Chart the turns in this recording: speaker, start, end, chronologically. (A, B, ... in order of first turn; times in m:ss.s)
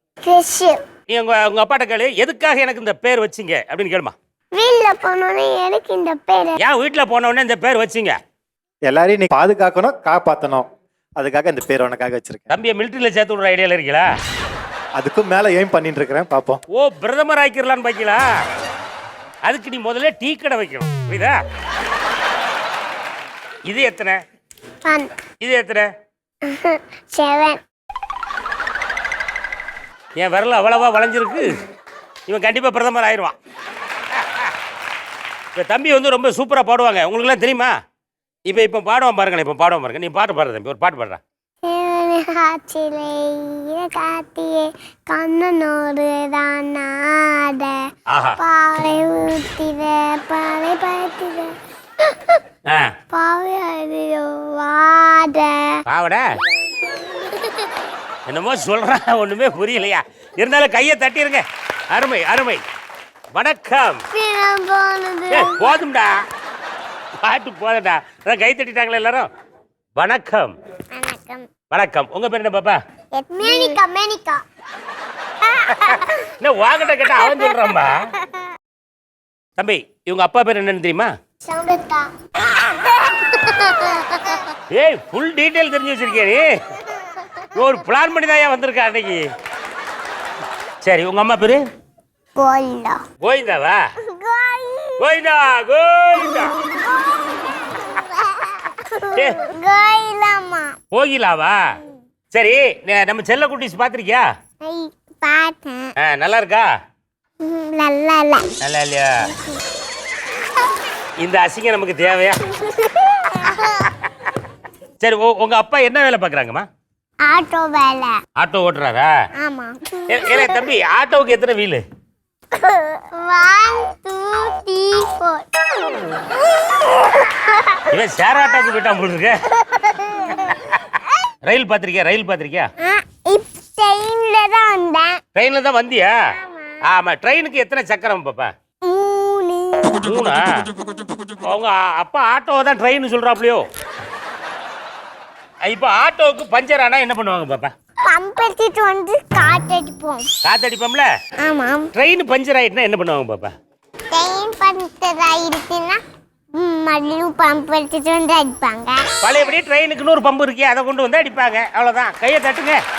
0:00.2-0:00.8 A
0:01.1-0:04.1 B
0:04.5-0:06.6 A
0:06.6-0:08.2 B
0:08.9-0:12.5 C
0:12.5-0:14.1 B
0:15.0-0:16.6 C
0:16.7-0:18.2 B
0:19.4-0:21.4 B
0:23.7-0:24.2 B
0:24.8-0:25.1 A
0:25.4-0:25.9 B
0:26.5-0:27.6 A
0:30.2-0:31.6 B
0:32.3-0:33.3 B
0:35.6-0:37.7 B
0:38.5-0:41.2 B
0:41.6-0:47.8 A
0:48.1-0:48.4 B
0:48.4-0:51.5 A
0:53.1-0:55.8 A
0:55.9-0:56.2 B
0:58.3-1:02.6 B
1:03.3-1:04.0 B
1:04.1-1:05.8 A
1:05.3-1:06.1 B
1:07.2-1:09.3 B
1:10.0-1:10.5 B
1:10.9-1:11.5 A
1:11.7-1:12.8 B
1:13.2-1:14.4 A
1:15.7-1:15.9 A
1:15.8-1:18.0 B
1:17.3-1:17.6 A
1:19.6-1:21.1 B
1:21.4-1:22.1 A
1:23.1-1:24.4 A
1:24.7-1:26.5 B
1:27.6-1:29.2 B
1:30.8-1:31.6 B
1:32.4-1:33.0 A
1:33.2-1:33.8 B
1:34.1-1:35.1 A
1:35.0-1:36.5 B
1:37.9-1:40.7 A
1:40.9-1:41.6 B
1:42.3-1:44.3 B
1:44.6-1:45.9 A
1:46.0-1:46.7 B
1:47.4-1:48.5 A
1:48.6-1:49.2 B
1:51.2-1:52.4 B
1:52.6-1:53.8 A
1:55.0-1:56.7 B
1:57.2-1:58.2 A
1:58.4-1:59.1 B
1:59.4-2:00.6 A
2:00.1-2:01.8 B
2:02.6-2:05.4 A
2:07.4-2:07.8 A
2:07.9-2:09.4 B
2:09.8-2:10.5 A
2:10.5-2:10.7 B
2:11.4-2:12.7 B
2:12.8-2:15.2 A
2:15.4-2:16.2 B
2:16.4-2:16.8 A
2:16.9-2:18.5 B
2:18.9-2:20.1 A
2:20.0-2:20.6 B
2:21.4-2:23.6 B
2:25.7-2:27.7 B
2:28.1-2:30.3 A
2:30.4-2:31.1 B
2:31.4-2:31.9 A
2:31.9-2:33.5 B
2:34.1-2:36.0 A
2:36.6-2:39.0 A
2:39.2-2:42.8 B